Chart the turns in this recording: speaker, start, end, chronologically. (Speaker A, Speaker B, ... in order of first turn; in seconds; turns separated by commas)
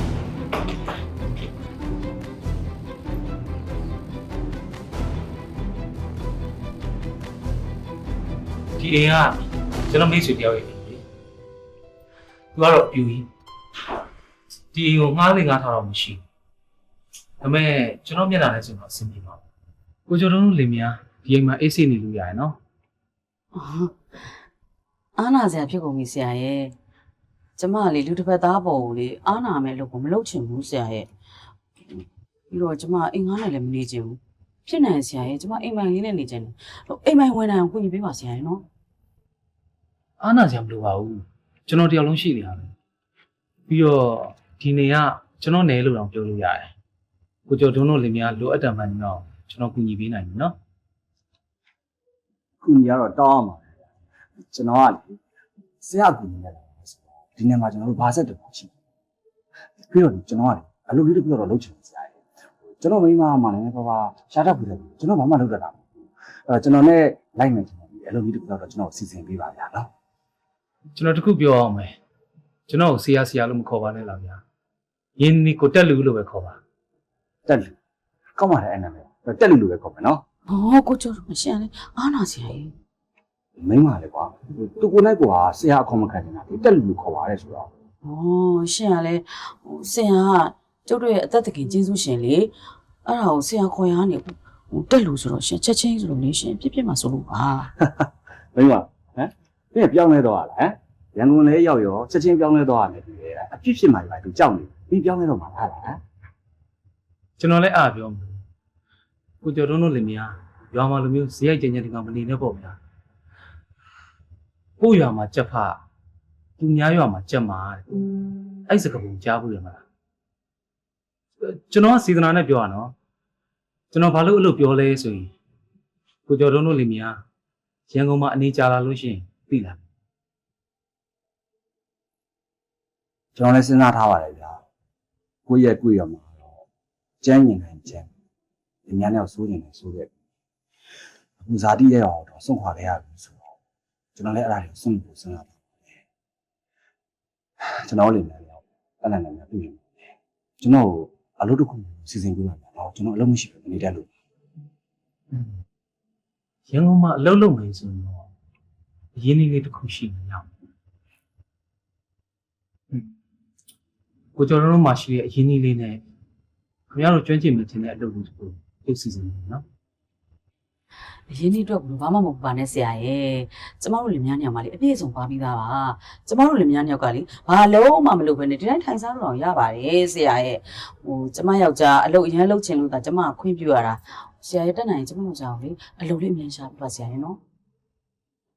Speaker A: 8.8-11.0, Speaker A: 12.6-13.3, Speaker A: 14.7-16.2, Speaker A: 17.4-19.4, Speaker A: 20.1-22.6, Speaker B: 23.5-23.9, Speaker B: 25.2-26.7, Speaker B: 27.6-31.1, Speaker B: 32.5-38.6, Speaker A: 40.2-42.7, Speaker A: 43.7-46.7, Speaker A: 47.5-50.5, Speaker C: 52.6-53.7, Speaker C: 54.4-55.2, Speaker C: 55.8-58.7, Speaker C: 59.8-62.2, Speaker C: 62.8-69.9, Speaker A: 71.0-72.0, Speaker A: 72.7-74.4, Speaker A: 75.2-76.6, Speaker C: 77.5-77.8, Speaker C: 78.4-80.2, Speaker B: 80.5-82.7, Speaker C: 83.6-87.7, Speaker B: 88.0-92.5, Speaker B: 93.1-97.7, Speaker C: 97.8-106.0, Speaker A: 107.4-108.4, Speaker A: 109.4-112.8, Speaker A: 114.8-115.8, Speaker A: 116.6-118.0, Speaker A: 118.7-119.8, Speaker A: 121.4-122.9, Speaker A: 123.9-125.3, Speaker A: 126.3-127.2, Speaker A: 127.9-129.8, Speaker C: 133.3-134.6, Speaker C: 135.5-136.5, Speaker C: 137.2-138.1, Speaker C: 138.9-140.1, Speaker C: 141.4-143.4, Speaker C: 144.2-146.0, Speaker C: 147.6-154.1, Speaker A: 155.3-155.6, Speaker A: 156.7-158.3, Speaker A: 159.2-160.5, Speaker A: 164.4-166.0, Speaker A: 166.9-169.6, Speaker B: 171.3-187.4